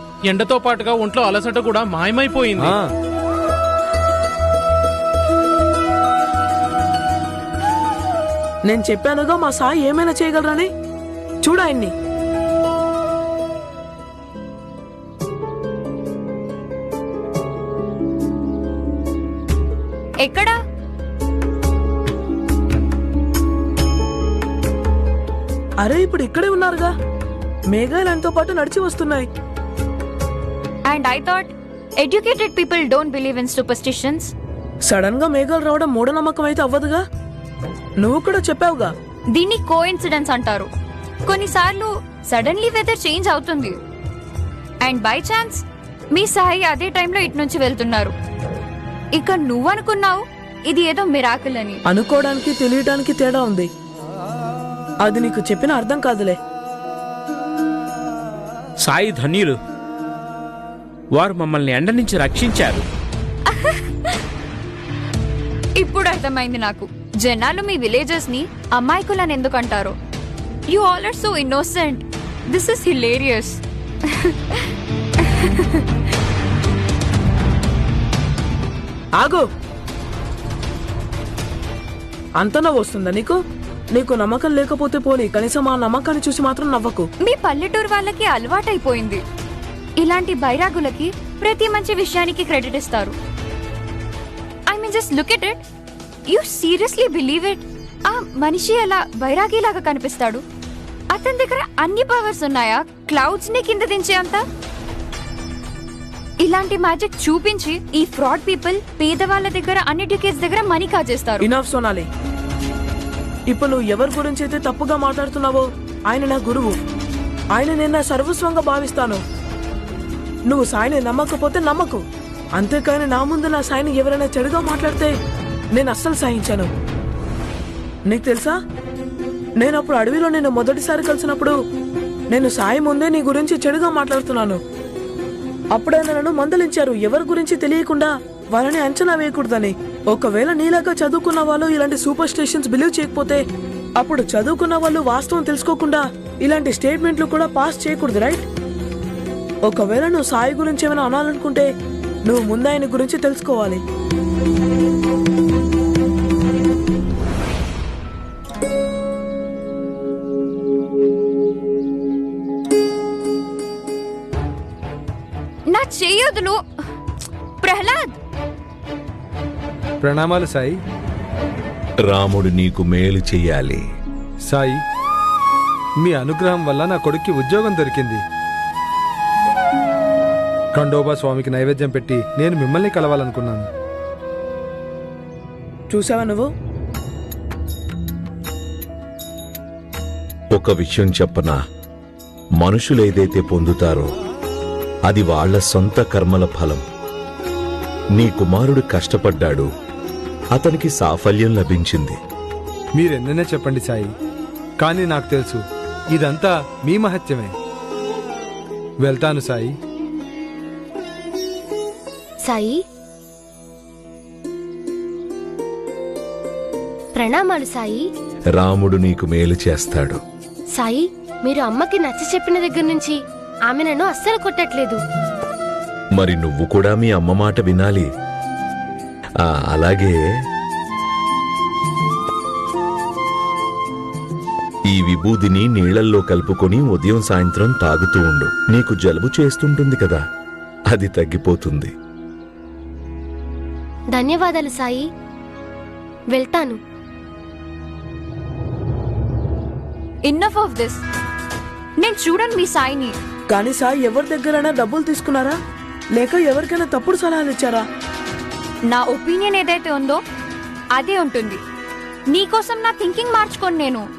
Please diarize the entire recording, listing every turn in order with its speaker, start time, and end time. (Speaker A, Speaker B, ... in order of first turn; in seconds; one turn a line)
Speaker A: 0.2-2.8
Speaker B: 8.6-10.7
Speaker B: 11.4-11.9
Speaker C: 20.2-20.6
Speaker B: 25.8-26.9
Speaker B: 27.7-29.3
Speaker C: 30.9-34.3
Speaker B: 34.8-37.0
Speaker B: 38.0-38.9
Speaker C: 39.3-40.7
Speaker C: 41.2-43.8
Speaker C: 44.8-45.6
Speaker C: 46.1-48.1
Speaker C: 49.1-51.8
Speaker B: 51.9-53.7
Speaker B: 55.0-56.4
Speaker D: 58.8-59.5
Speaker D: 61.1-62.8
Speaker C: 63.5-64.2
Speaker C: 65.8-69.9
Speaker C: 70.7-74.7
Speaker C: 75.2-75.9
Speaker B: 79.2-79.5
Speaker B: 82.4-83.4
Speaker B: 83.9-87.1
Speaker C: 87.2-89.2
Speaker C: 90.0-93.1
Speaker C: 94.7-95.6
Speaker C: 96.3-100.4
Speaker C: 101.1-104.4
Speaker C: 106.4-111.5
Speaker B: 111.4-112.1
Speaker B: 113.5-116.8
Speaker B: 117.5-119.2
Speaker B: 120.5-122.0
Speaker B: 122.5-125.1
Speaker B: 125.7-126.7
Speaker B: 128.1-128.6
Speaker B: 129.6-131.5
Speaker B: 132.3-134.6
Speaker B: 135.7-143.4
Speaker B: 143.9-148.4
Speaker B: 149.7-151.7
Speaker B: 152.2-153.8
Speaker C: 165.7-166.6
Speaker C: 167.6-168.1
Speaker E: 170.0-170.8
Speaker F: 172.1-173.8
Speaker E: 174.5-174.8
Speaker E: 176.0-178.2
Speaker E: 180.7-183.7
Speaker B: 185.9-186.5
Speaker F: 190.5-191.6
Speaker F: 192.6-194.1
Speaker F: 195.1-196.8
Speaker F: 198.1-199.7
Speaker F: 200.5-202.2
Speaker E: 202.9-204.1
Speaker E: 204.8-205.6
Speaker E: 206.1-207.5
Speaker E: 209.0-209.7
Speaker G: 212.4-212.8
Speaker G: 217.1-218.0
Speaker F: 218.5-220.2
Speaker G: 220.7-225.0
Speaker F: 226.2-228.1
Speaker F: 229.4-230.2
Speaker F: 234.9-240.2
Speaker F: 240.9-241.9
Speaker G: 244.1-245.0
Speaker G: 246.3-246.8
Speaker C: 250.2-251.0
Speaker C: 252.0-253.1
Speaker B: 253.5-255.6
Speaker B: 256.1-257.8
Speaker C: 258.9-260.2
Speaker C: 260.9-261.6
Speaker C: 262.3-264.0